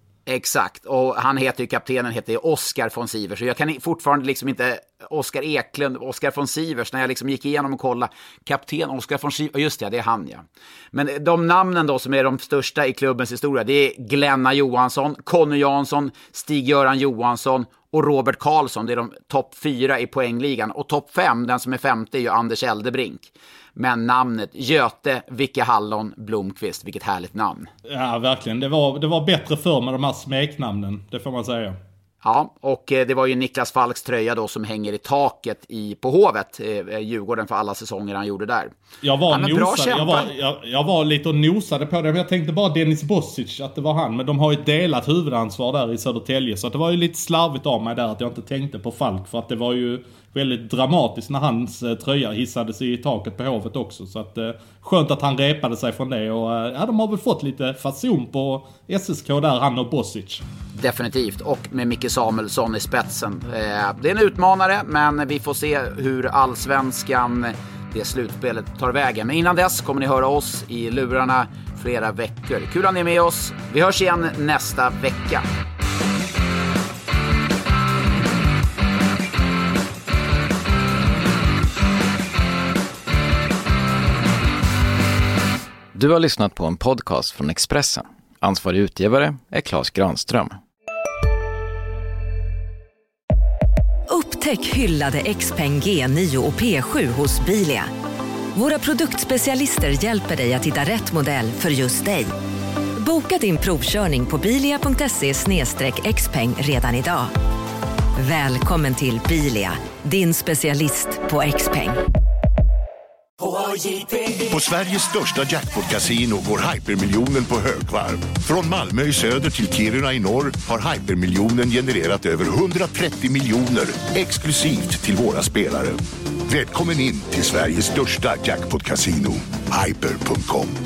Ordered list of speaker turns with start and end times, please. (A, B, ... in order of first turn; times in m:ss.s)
0:00.3-0:27.7 A
0:27.9-0:31.8 B
0:32.2-0:38.7 A
0:39.0-1:00.4 B
0:39.3-0:40.3 A
1:00.8-1:15.5 A
1:25.9-1:30.6 C
1:34.1-1:37.9 D
1:38.6-1:42.3 D
1:43.0-1:47.3 D
1:48.2-1:52.0 D
1:54.4-2:10.8 E